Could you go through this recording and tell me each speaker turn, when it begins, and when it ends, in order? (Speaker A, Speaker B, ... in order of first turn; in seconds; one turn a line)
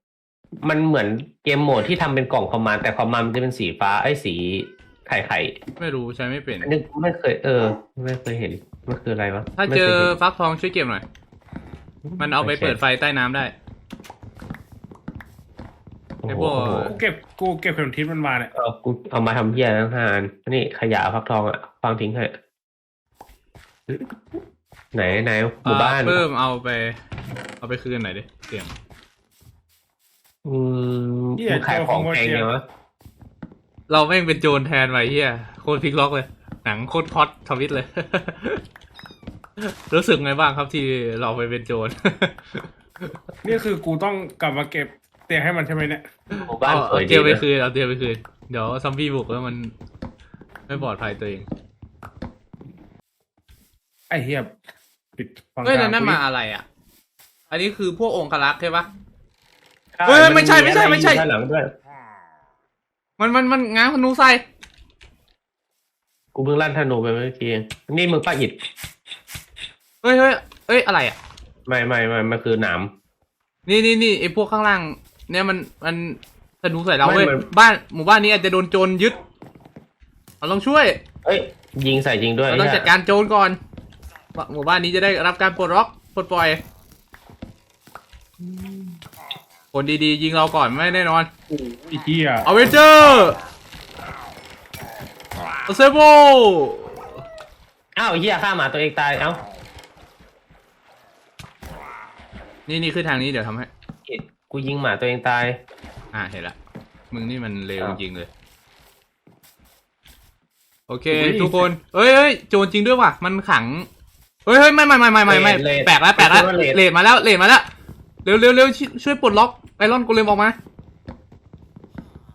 Speaker A: 0.6-5.6
Speaker B: 5.8-6.7
Speaker A: 6.6-10.1
Speaker B: 9.6-11.0
Speaker A: 12.1-12.8
Speaker B: 12.2-13.5
Speaker A: 16.2-16.9
Speaker B: 16.3-16.9
Speaker C: 16.9-18.5
Speaker A: 18.5-22.4
Speaker A: 23.9-24.1
Speaker A: 24.9-26.2
Speaker B: 25.6-26.9
Speaker B: 27.6-28.7
Speaker A: 30.4-32.6
Speaker C: 31.4-32.5
Speaker B: 33.9-38.6
Speaker B: 39.6-43.1
Speaker C: 43.4-46.0
Speaker B: 46.3-49.7
Speaker A: 46.4-47.4
Speaker B: 50.7-51.5
Speaker C: 54.1-54.5
Speaker C: 55.2-56.2
Speaker B: 55.6-56.6
Speaker B: 57.5-58.9
Speaker A: 60.0-61.7
Speaker B: 60.0-61.2
Speaker B: 63.2-64.4
Speaker A: 66.3-68.6
Speaker B: 70.0-71.2
Speaker A: 71.7-72.9
Speaker B: 73.7-79.2
Speaker A: 77.0-77.4
Speaker B: 80.4-81.0
Speaker A: 81.2-82.9
Speaker B: 82.5-83.6
Speaker B: 84.3-86.6
Speaker B: 89.7-91.3
Speaker C: 91.5-92.5
Speaker B: 92.4-93.4
Speaker B: 95.7-97.1
Speaker A: 98.0-99.4
Speaker B: 102.7-103.7
Speaker A: 104.0-105.6
Speaker B: 106.1-106.5
Speaker B: 107.1-108.3
Speaker B: 110.9-113.9
Speaker A: 111.1-111.7
Speaker B: 114.5-117.7
Speaker A: 115.3-116.8
Speaker B: 118.2-120.6